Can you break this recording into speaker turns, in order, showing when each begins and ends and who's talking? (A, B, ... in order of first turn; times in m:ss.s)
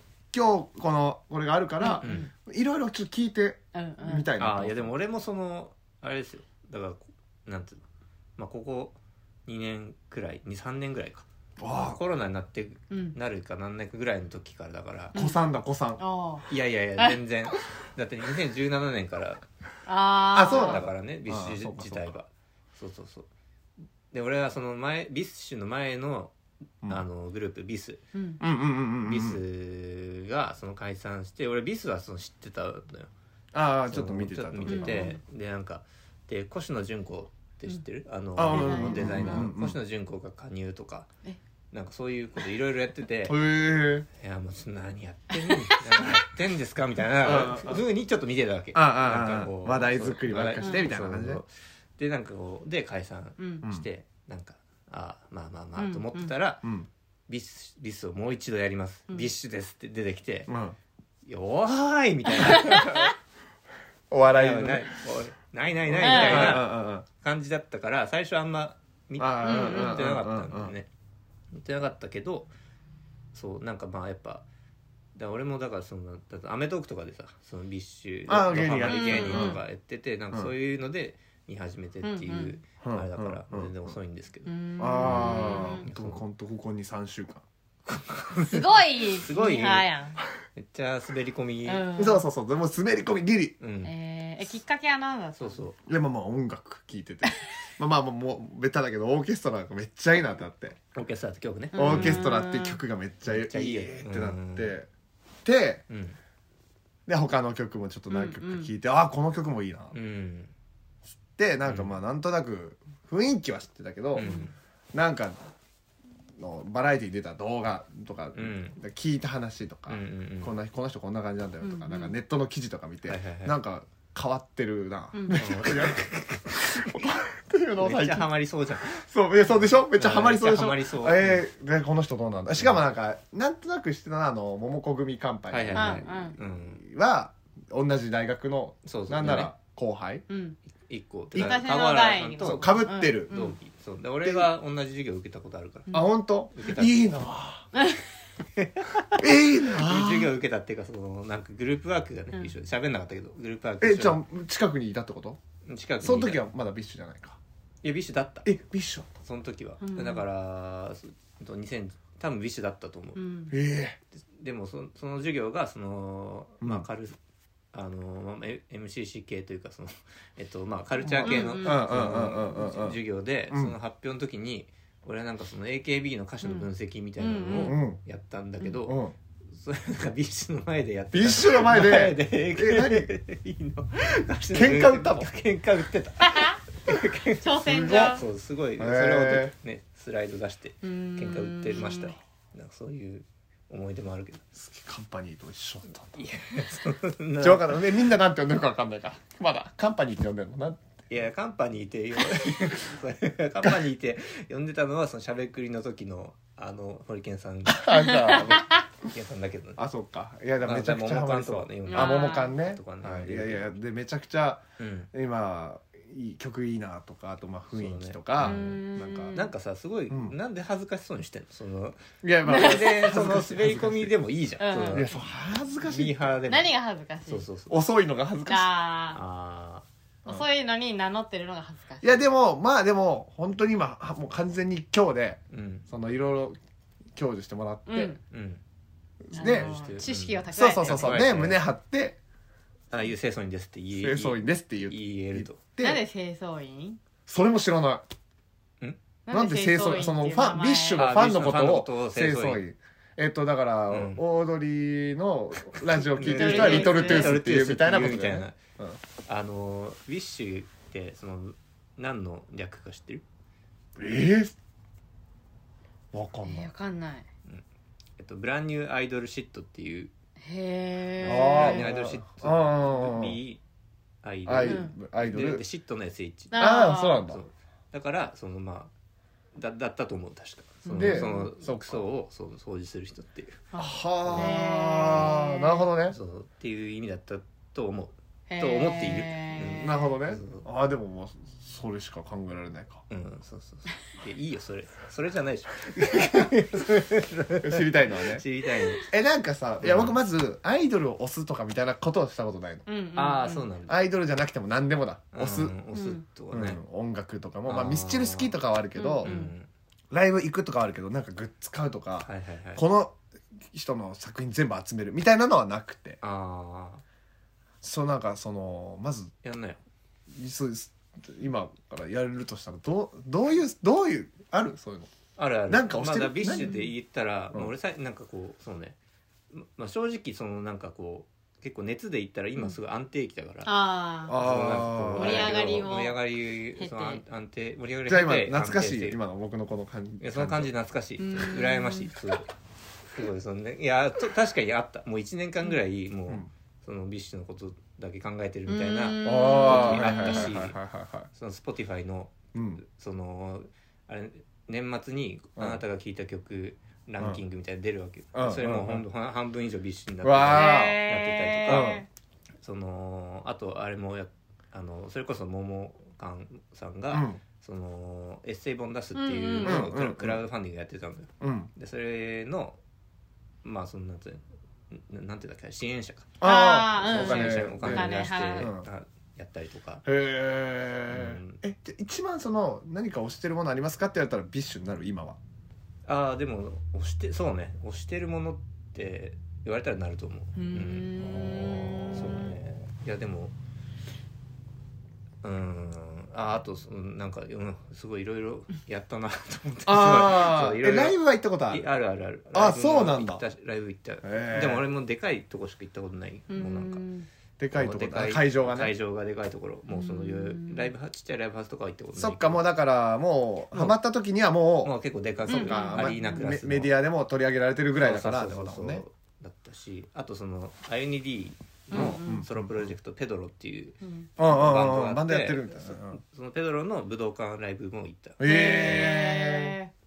0:00.3-0:04.9 A
0:01.8-0:02.3 B
0:02.0-0:02.3 C
0:03.7-0:04.3 B
0:04.4-0:07.8 C
0:08.4-0:15.2 C
0:11.6-0:12.0 A
0:12.9-0:13.2 B
0:15.1-0:16.0 A
0:16.0-0:17.2 B
0:16.5-0:19.4 C
0:19.9-0:20.8 B
0:20.3-0:22.2 A
0:20.4-0:23.3 C
0:24.1-0:26.3 C
0:26.9-0:28.0 C
0:28.1-0:28.4 B
0:28.4-0:29.4 A
0:29.0-0:33.1 C
0:33.5-0:35.2 A
0:33.9-0:41.1 C
0:34.7-0:35.2 B
0:38.4-0:39.8 A
0:38.5-0:39.5 B
0:41.7-0:43.4 C
0:43.3-0:44.1 A
0:44.2-0:56.7 C
0:45.4-0:45.8 B
0:47.2-0:47.8 A
0:48.8-0:51.4 A
0:50.6-0:50.9 B
0:53.4-0:53.6 B
0:55.8-0:56.3 B
0:56.6-0:56.9 A
0:57.3-1:00.5 C
1:00.5-1:00.8 A
1:01.2-1:03.1 C
1:02.4-1:03.1 B
1:04.1-1:05.0 A
1:04.3-1:10.9 C
1:05.8-1:07.1 A
1:06.0-1:06.7 B
1:09.2-1:10.8 A
1:09.4-1:10.0 B
1:11.5-1:12.5 C
1:13.3-1:14.4 C
1:15.2-1:26.2 C
1:18.3-1:19.6 A
1:18.8-1:19.6 B
1:22.0-1:22.6 B
1:22.8-1:24.0 A
1:24.5-1:25.8 B
1:24.8-1:27.4 A
1:28.3-1:29.9 C
1:28.4-1:30.2 B
1:30.6-1:31.8 C
1:31.7-1:32.2 B
1:32.0-1:33.6 A
1:33.6-1:33.9 C
1:33.8-1:35.6 B
1:35.4-1:35.8 C
1:35.9-1:40.8 A
1:41.0-1:42.3 C
1:41.7-1:42.8 B
1:41.8-1:44.9 A
1:43.3-1:44.8 C
1:45.4-1:45.8 A
1:45.9-1:46.2 C
1:47.1-1:50.0 A
1:48.1-1:48.7 B
1:49.9-1:50.5 C
1:51.4-1:54.3 A
1:51.6-1:52.0 C
1:54.2-1:54.5 C
1:54.2-1:54.5 B
1:54.9-1:55.4 A
1:56.4-2:20.2 A
1:58.3-1:58.8 C
1:59.9-2:00.6 C
2:01.6-2:02.2 B
2:03.1-2:03.6 C
2:05.1-2:05.5 B
2:05.3-2:07.0 C
2:07.8-2:11.4 C
2:15.5-2:16.8 C
2:15.8-2:16.4 B
2:18.8-2:19.5 C
2:20.3-2:20.6 B
2:20.7-2:27.1 C
2:21.4-2:21.7 A
2:21.4-2:23.6 B
2:22.4-2:23.3 A
2:25.9-2:27.7 A
2:28.6-2:34.2 C
2:29.2-2:30.3 A
2:33.8-2:35.4 A
2:35.7-2:36.4 C
2:36.0-2:37.4 A
2:37.8-2:38.5 C
2:38.4-2:39.1 A
2:39.2-2:43.2 C
2:39.8-2:40.2 B
2:43.2-2:43.6 B
2:43.5-2:44.0 A
2:44.2-2:47.2 C
2:46.6-2:46.9 A
2:47.7-3:14.4 C
2:51.0-2:53.0 A
2:51.2-2:51.9 B
2:53.5-2:53.8 A
2:56.4-2:57.8 B
2:57.6-2:58.0 A
2:58.8-2:59.1 A
3:01.1-3:03.1 A
3:04.5-3:05.3 A
3:06.2-3:06.6 B
3:07.4-3:08.2 B
3:07.7-3:08.2 A
3:08.8-3:09.5 A
3:10.8-3:12.1 B
3:14.6-3:16.2 A
3:16.1-3:17.9 C
3:17.4-3:20.8 A
3:21.1-3:29.8 C
3:27.7-3:28.7 A
3:29.8-3:39.4 A
3:30.6-3:33.8 C
3:31.9-3:32.6 B
3:34.8-3:35.1 C
3:37.7-3:38.8 C
3:38.4-3:39.5 B
3:39.3-3:45.1 C
3:40.1-3:40.4 A
3:42.2-3:44.1 A
3:42.5-3:43.1 B
3:44.6-3:45.1 B
3:44.9-3:46.4 A
3:45.9-3:46.7 C
3:46.5-3:47.5 B
3:47.3-3:47.8 C
3:47.7-3:48.7 A
3:48.4-3:49.2 B
3:49.1-3:49.8 C
3:50.2-3:52.2 B
3:52.0-3:56.6 A
3:55.5-3:55.9 C
3:57.2-3:58.2 A
3:57.9-3:58.2 B
3:58.3-3:58.6 C
3:59.3-3:59.7 A
3:59.3-4:01.2 B
3:59.3-4:01.6 C
4:00.5-4:02.2 A
4:02.9-4:05.6 C
4:04.0-4:06.0 A
4:05.8-4:07.0 B
4:07.3-4:08.0 A
4:09.3-4:11.1 B
4:09.3-4:19.0 A
4:11.0-4:12.6 C
4:13.9-4:14.2 C
4:15.8-4:18.6 C
4:16.2-4:17.4 B
4:19.3-4:23.2 C
4:24.0-4:24.6 A
4:26.1-4:26.7 A
4:26.4-4:27.3 B
4:28.2-4:30.1 C
4:30.4-4:31.9 B
4:31.2-4:33.6 C
4:31.2-4:33.4 A
4:34.2-4:38.9 C
4:34.5-4:35.6 A
4:34.6-4:34.9 B
4:36.5-4:37.3 B
4:36.6-4:37.4 A
4:39.5-4:43.6 C
4:40.8-4:41.5 B
4:41.0-4:42.0 A
4:43.7-4:45.9 B
4:43.8-4:46.2 A
4:44.2-4:45.4 C
4:46.1-4:50.7 C
4:48.5-4:50.2 B
4:49.7-4:53.0 A
4:53.1-4:59.1 C
4:57.6-4:58.4 A
4:59.0-5:02.9 A
4:59.8-5:00.2 C
5:02.9-5:03.7 B
5:03.2-5:04.0 C
5:03.9-5:05.8 A
5:05.3-5:06.8 C
5:05.9-5:06.2 B
5:06.5-5:09.3 A
5:07.7-5:08.6 C
5:09.0-5:09.5 B
5:09.2-5:09.7 C
5:10.1-5:13.2 A
5:12.2-5:12.8 C
5:13.7-5:16.2 A
5:16.2-5:17.0 C
5:17.8-5:19.3 A
5:19.4-5:19.8 C
5:20.3-5:25.1 A
5:25.4-5:29.0 C
5:25.7-5:26.7 A
5:26.5-5:26.9 B
5:29.5-5:33.7 C
5:33.6-5:34.4 B
5:34.3-5:35.8 A
5:34.3-5:39.2 C
5:35.1-5:36.2 B
5:36.8-5:37.2 B
5:38.1-5:40.7 A
5:40.2-5:42.5 C
5:41.2-5:42.1 B
5:43.1-5:50.8 C
5:48.7-5:50.6 B
5:49.2-5:51.3 A
5:51.3-6:02.0 C
5:52.5-5:52.8 A
5:55.6-5:55.8 A
5:58.3-5:59.0 A
6:00.2-6:01.0 A
6:00.5-6:02.1 B
6:01.7-6:02.0 A
6:02.6-6:12.8 C
6:07.1-6:07.4 A
6:09.2-6:09.9 B
6:09.6-6:10.4 A
6:11.4-6:11.7 A
6:13.6-6:16.4 C
6:16.4-6:18.9 A
6:16.4-6:18.7 B
6:17.0-6:20.0 C
6:20.0-6:25.4 A
6:21.1-6:21.6 C
6:26.1-6:31.2 C
6:30.6-6:32.2 B
6:31.2-6:32.7 A
6:32.1-6:33.5 C
6:35.4-6:41.2 C
6:39.9-6:41.8 A
6:41.7-6:47.0 C
6:42.5-6:43.4 A
6:44.2-6:44.9 A
6:46.5-6:47.3 B
6:47.6-6:48.9 A
6:47.7-6:52.6 C
6:49.9-6:50.9 B
6:52.2-6:54.9 A
6:53.7-6:54.0 C
6:54.8-6:56.9 C
6:55.5-6:59.0 A
6:55.5-6:56.5 B
6:58.0-7:09.2 C
7:01.9-7:02.4 B
7:01.9-7:02.9 A
7:04.0-7:04.3 B
7:04.4-7:06.2 A
7:08.4-7:09.8 A
7:08.4-7:09.9 B